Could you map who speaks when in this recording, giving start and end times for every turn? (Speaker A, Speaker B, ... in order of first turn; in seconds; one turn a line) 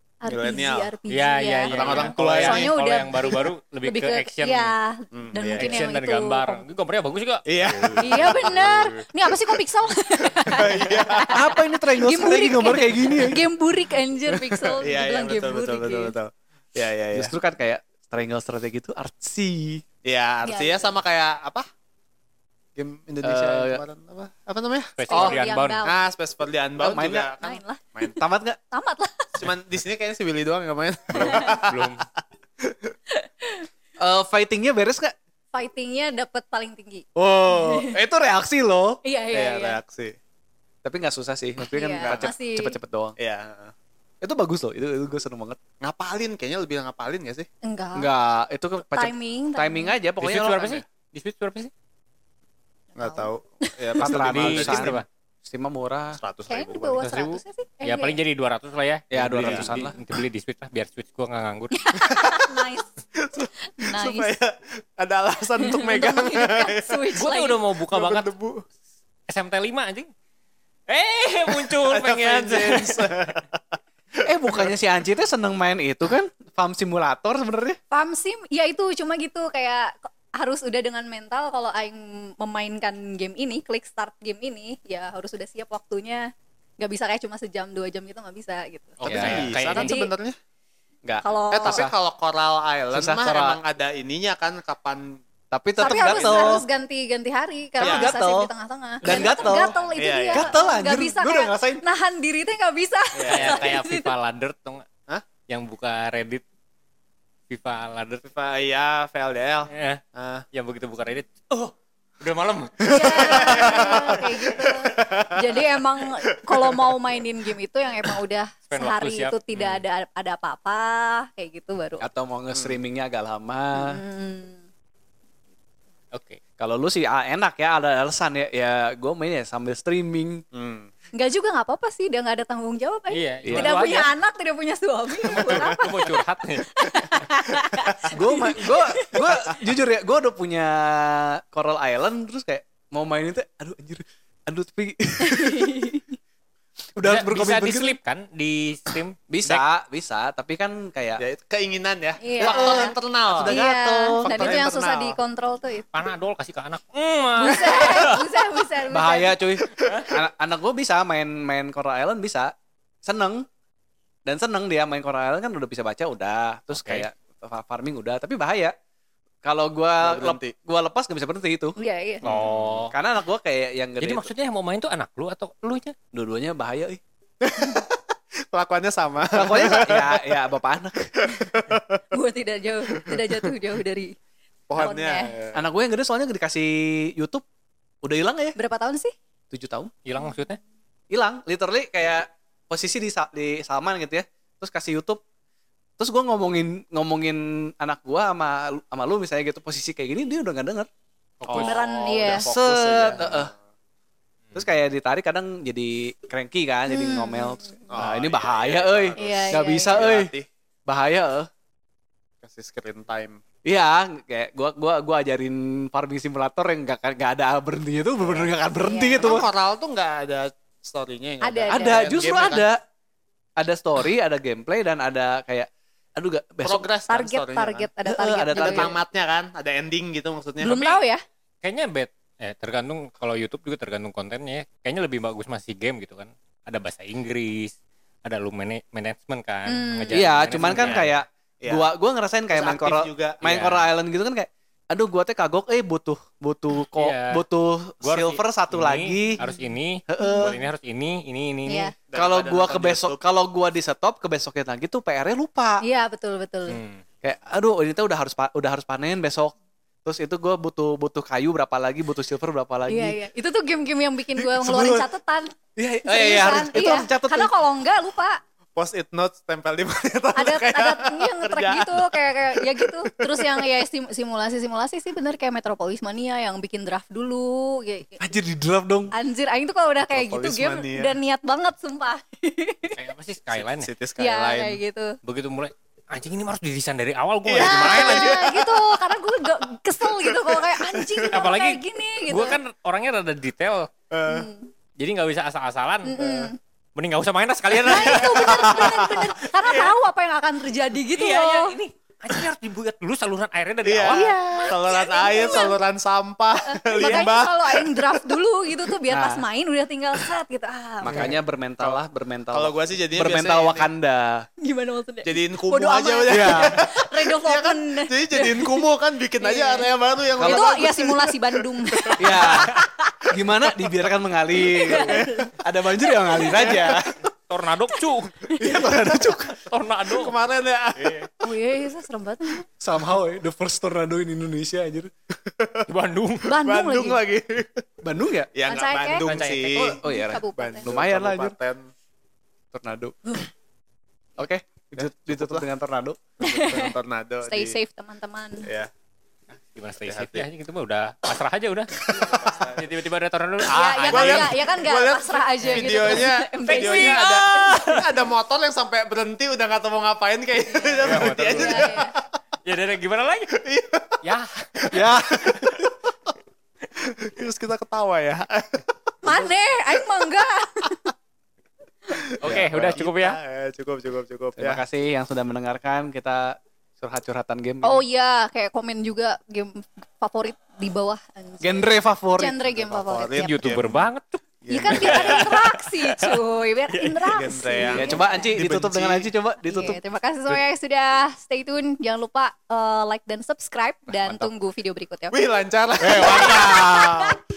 Speaker A: 0.2-6.6
Speaker B: 0.2-0.9
Speaker C: 1.1-4.7
Speaker B: 1.7-2.7
Speaker B: 5.1-5.8
Speaker C: 5.5-9.0
Speaker B: 7.5-8.7
Speaker A: 8.0-16.1
Speaker B: 10.4-11.4
Speaker D: 11.3-13.4
Speaker B: 14.3-17.3
Speaker D: 17.1-19.8
Speaker B: 20.0-21.6
Speaker A: 20.4-20.9
Speaker B: 22.8-28.1
Speaker D: 23.2-23.8
Speaker C: 25.0-25.8
Speaker A: 25.1-26.0
Speaker D: 26.8-27.3
Speaker A: 27.4-27.8
Speaker D: 28.2-28.6
Speaker A: 28.7-29.4
Speaker B: 29.4-32.1
Speaker C: 31.1-32.0
Speaker A: 31.1-31.6
Speaker B: 32.6-32.9
Speaker A: 33.1-33.7
Speaker D: 34.0-35.1
Speaker A: 35.5-38.0
Speaker D: 37.1-39.0
Speaker A: 39.0-39.8
Speaker B: 39.3-40.1
Speaker D: 40.8-43.1
Speaker A: 41.6-42.8
Speaker B: 42.0-42.3
Speaker B: 43.2-43.7
Speaker D: 44.2-45.6
Speaker B: 45.8-47.5
Speaker A: 47.6-48.1
Speaker D: 48.0-50.8
Speaker A: 48.9-50.0
Speaker C: 50.2-51.7
Speaker A: 53.0-53.9
Speaker B: 53.0-55.0
Speaker D: 54.0-56.2
Speaker C: 54.0-55.0
Speaker B: 56.2-57.0
Speaker A: 56.5-58.2
Speaker C: 57.0-61.8
Speaker D: 59.1-60.0
Speaker B: 59.4-59.9
Speaker A: 61.8-62.9
Speaker B: 62.0-67.0
Speaker A: 63.8-64.3
Speaker A: 65.6-67.6
Speaker C: 67.1-68.3
Speaker B: 67.9-68.7
Speaker C: 69.3-70.1
Speaker C: 70.9-73.1
Speaker B: 71.7-73.6
Speaker B: 74.2-74.7
Speaker D: 74.2-77.8
Speaker A: 77.9-89.0
Speaker C: 89.0-89.9
Speaker B: 89.0-90.4
Speaker D: 89.0-89.6
Speaker A: 89.7-90.1
Speaker D: 91.0-91.9
Speaker A: 91.2-91.8
Speaker B: 91.5-95.2
Speaker D: 92.9-93.6
Speaker D: 95.5-96.6
Speaker A: 95.8-104.1
Speaker B: 95.8-96.6
Speaker B: 97.8-98.1
Speaker D: 97.8-99.7
Speaker B: 99.1-100.7
Speaker D: 100.3-101.8
Speaker B: 103.1-103.6
Speaker C: 103.2-104.8
Speaker C: 105.5-106.4
Speaker C: 107.5-108.2
Speaker B: 108.2-110.4
Speaker C: 109.7-110.0
Speaker C: 110.5-114.1
Speaker B: 112.8-115.7
Speaker A: 112.9-122.1
Speaker B: 116.5-116.9
Speaker C: 118.7-119.8
Speaker D: 122.0-124.0
Speaker A: 123.7-124.6
Speaker C: 126.1-126.4
Speaker D: 126.6-130.4
Speaker B: 130.5-130.9
Speaker A: 131.1-136.2
Speaker C: 133.1-134.1
Speaker D: 133.4-133.8
Speaker C: 135.2-136.7
Speaker B: 135.5-135.8
Speaker A: 136.8-139.5
Speaker D: 138.1-145.9
Speaker A: 145.2-146.2
Speaker D: 146.9-147.9
Speaker C: 147.0-149.6
Speaker D: 149.3-151.2
Speaker B: 151.2-153.6
Speaker A: 152.2-152.9
Speaker D: 152.3-154.6
Speaker A: 153.4-155.9
Speaker B: 154.2-155.2
Speaker C: 155.9-158.2
Speaker A: 157.3-159.4
Speaker D: 157.7-158.2
Speaker D: 158.9-162.5
Speaker D: 163.0-163.4
Speaker D: 164.2-168.7
Speaker C: 166.7-167.1
Speaker D: 169.4-171.8
Speaker B: 170.0-170.5
Speaker A: 171.8-172.2
Speaker B: 172.2-172.8
Speaker C: 172.2-172.9
Speaker D: 172.9-174.3
Speaker C: 174.0-175.9
Speaker D: 176.1-177.0
Speaker B: 177.4-180.3
Speaker D: 179.3-181.1
Speaker B: 181.2-182.0
Speaker A: 182.1-184.2
Speaker B: 183.0-183.4
Speaker B: 184.7-185.6
Speaker A: 184.7-185.3
Speaker D: 185.5-187.4
Speaker D: 188.0-188.6
Speaker A: 188.6-189.1
Speaker D: 189.5-189.9
Speaker C: 190.0-190.6
Speaker D: 191.1-195.2
Speaker D: 196.0-200.9
Speaker C: 201.4-202.3
Speaker D: 201.4-201.7
Speaker B: 201.5-203.6
Speaker A: 201.5-202.5
Speaker D: 202.3-203.5
Speaker D: 204.5-210.3
Speaker A: 206.9-207.8
Speaker B: 207.9-210.5
Speaker A: 209.2-210.1
Speaker D: 210.9-211.5
Speaker B: 212.4-213.4
Speaker D: 213.6-219.4
Speaker B: 218.2-218.5
Speaker A: 218.8-219.4
Speaker B: 219.2-222.7
Speaker A: 221.4-222.2
Speaker D: 221.7-222.8
Speaker D: 223.6-226.9
Speaker B: 226.6-227.9
Speaker A: 227.1-228.9
Speaker D: 228.0-228.9
Speaker B: 228.5-230.9
Speaker A: 230.6-231.2
Speaker C: 231.6-241.1
Speaker A: 239.7-240.3
Speaker D: 240.1-249.4
Speaker B: 240.6-241.0
Speaker B: 241.6-241.9
Speaker B: 242.5-243.4
Speaker C: 243.4-243.9
Speaker C: 247.0-247.4
Speaker C: 248.0-251.9
Speaker D: 250.1-250.5
Speaker A: 250.2-250.6
Speaker A: 251.7-251.9
Speaker B: 252.1-253.2
Speaker D: 252.1-255.8
Speaker A: 255.8-256.8
Speaker C: 256.7-257.0
Speaker D: 257.2-263.1
Speaker A: 262.9-268.4
Speaker D: 264.4-265.1
Speaker D: 265.8-267.5
Speaker B: 268.8-273.6
Speaker A: 270.4-278.2
Speaker D: 278.2-279.1
Speaker A: 279.1-282.9
Speaker B: 280.0-281.2
Speaker C: 282.9-283.9
Speaker B: 283.6-284.8
Speaker A: 284.2-285.2
Speaker C: 285.2-288.5
Speaker B: 287.4-289.3
Speaker A: 287.6-292.6
Speaker B: 290.0-291.5
Speaker C: 291.3-293.9
Speaker B: 294.1-294.5
Speaker A: 294.3-294.7
Speaker C: 295.0-296.2
Speaker A: 296.1-296.6
Speaker B: 296.1-296.5
Speaker C: 296.9-299.9
Speaker B: 297.7-299.3
Speaker A: 297.8-301.8
Speaker C: 301.1-304.3
Speaker B: 303.8-308.4
Speaker A: 304.1-305.8
Speaker A: 306.7-311.3
Speaker C: 307.0-307.3
Speaker D: 309.1-309.4
Speaker D: 311.0-314.5
Speaker B: 312.5-313.9
Speaker A: 314.6-318.8
Speaker B: 315.2-322.8
Speaker D: 316.3-316.8
Speaker A: 319.4-323.2
Speaker D: 320.4-320.7
Speaker D: 322.2-322.8
Speaker D: 323.3-327.1
Speaker A: 324.6-326.9
Speaker B: 324.9-325.4
Speaker C: 327.4-328.3
Speaker A: 327.9-328.9
Speaker D: 328.6-329.6
Speaker C: 329.5-330.4
Speaker B: 330.1-331.2
Speaker C: 330.9-331.3
Speaker A: 331.4-332.7
Speaker D: 332.8-335.1
Speaker B: 335.4-335.9
Speaker C: 335.9-336.5
Speaker A: 336.4-337.2
Speaker B: 336.6-337.8
Speaker D: 338.0-338.5
Speaker B: 338.5-340.0
Speaker A: 338.6-340.9
Speaker C: 339.1-339.8
Speaker D: 339.8-341.5
Speaker B: 340.5-341.8
Speaker D: 342.7-343.2
Speaker D: 344.4-346.2
Speaker B: 344.9-345.7
Speaker A: 346.4-346.9
Speaker B: 346.4-347.8
Speaker A: 347.4-348.7
Speaker B: 348.6-348.9
Speaker C: 349.7-354.6
Speaker B: 350.0-350.4
Speaker A: 352.1-352.7
Speaker B: 352.1-352.9
Speaker A: 353.7-358.0
Speaker B: 354.1-362.2
Speaker C: 355.7-356.1
Speaker C: 356.6-358.1
Speaker A: 360.8-362.1
Speaker C: 361.0-362.1
Speaker C: 362.6-363.6
Speaker B: 363.5-364.2
Speaker C: 364.2-364.9
Speaker B: 364.8-365.9
Speaker D: 364.9-365.7
Speaker B: 367.0-369.3
Speaker A: 369.2-371.1
Speaker B: 372.1-374.8
Speaker C: 372.4-373.4
Speaker D: 372.4-373.0
Speaker D: 374.6-378.0
Speaker A: 377.8-383.5
Speaker D: 381.6-382.6
Speaker B: 382.7-384.1
Speaker C: 383.4-387.5
Speaker B: 384.6-385.6
Speaker A: 384.7-388.5
Speaker B: 387.3-389.3
Speaker D: 387.9-390.0
Speaker A: 389.6-395.4
Speaker B: 395.3-397.4
Speaker C: 396.0-396.8
Speaker A: 396.1-397.3
Speaker D: 396.4-397.2